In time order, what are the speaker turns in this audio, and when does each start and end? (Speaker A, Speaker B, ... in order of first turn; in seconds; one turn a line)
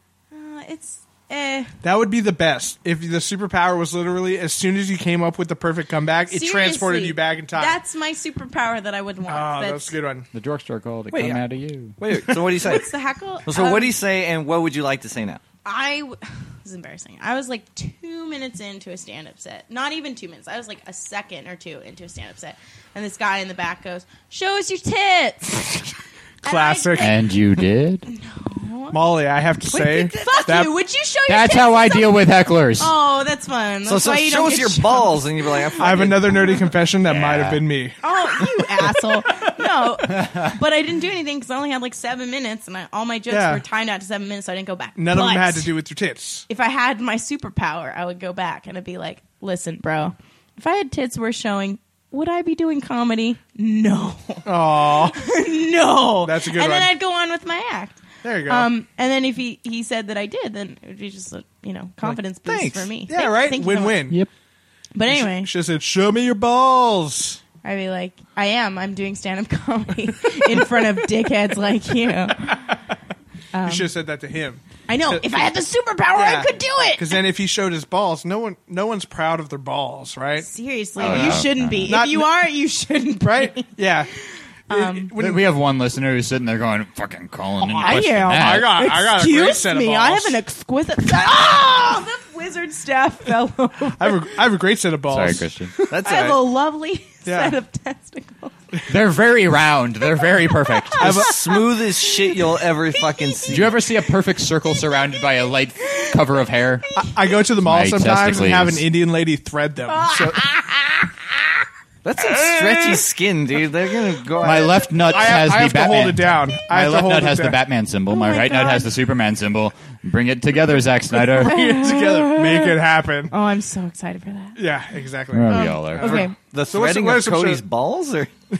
Speaker A: 0.3-1.8
Speaker B: 1.8-7.8
Speaker A: 6.3-9.9
Speaker B: 9.3-10.3
Speaker C: 10.3-12.0
Speaker D: 11.1-11.4
Speaker D: 12.0-12.9
Speaker A: 12.5-13.9
Speaker D: 13.4-15.4
Speaker A: 15.6-27.2
Speaker B: 26.4-27.1
Speaker C: 26.9-28.1
Speaker A: 28.1-29.0
Speaker B: 28.9-30.7
Speaker A: 29.7-32.2
Speaker C: 31.3-32.9
Speaker A: 32.8-36.6
Speaker D: 33.9-36.5
Speaker B: 35.8-38.0
Speaker C: 37.0-37.6
Speaker A: 38.0-45.7
Speaker B: 43.3-43.6
Speaker B: 45.0-46.5
Speaker A: 46.5-64.1
Speaker B: 54.5-55.3
Speaker B: 56.2-56.9
Speaker B: 58.2-58.7
Speaker D: 62.5-62.9
Speaker B: 63.1-64.2
Speaker A: 64.9-65.5
Speaker B: 65.1-67.4
Speaker A: 67.6-72.5
Speaker B: 72.4-72.7
Speaker A: 73.5-73.9
Speaker B: 73.6-75.2
Speaker A: 74.9-77.2
Speaker B: 76.1-82.3
Speaker A: 80.4-84.2
Speaker C: 81.0-82.0
Speaker B: 83.3-84.1
Speaker A: 84.7-85.1
Speaker B: 84.7-85.4
Speaker C: 85.2-88.8
Speaker B: 87.7-90.4
Speaker A: 87.8-94.4
Speaker B: 93.9-95.9
Speaker C: 95.1-95.7
Speaker D: 95.9-96.4
Speaker A: 96.0-98.5
Speaker B: 97.2-97.6
Speaker C: 98.9-101.3
Speaker A: 100.7-103.6
Speaker D: 101.0-103.8
Speaker C: 103.5-106.9
Speaker B: 107.0-110.4
Speaker C: 107.6-108.8
Speaker A: 109.9-110.8
Speaker D: 112.0-114.9
Speaker C: 114.4-121.6
Speaker B: 115.1-117.6
Speaker A: 118.1-118.9
Speaker B: 121.2-123.3
Speaker A: 121.4-122.8
Speaker A: 123.3-124.6
Speaker B: 124.6-127.6
Speaker C: 125.3-126.2
Speaker A: 125.5-126.3
Speaker D: 126.0-128.3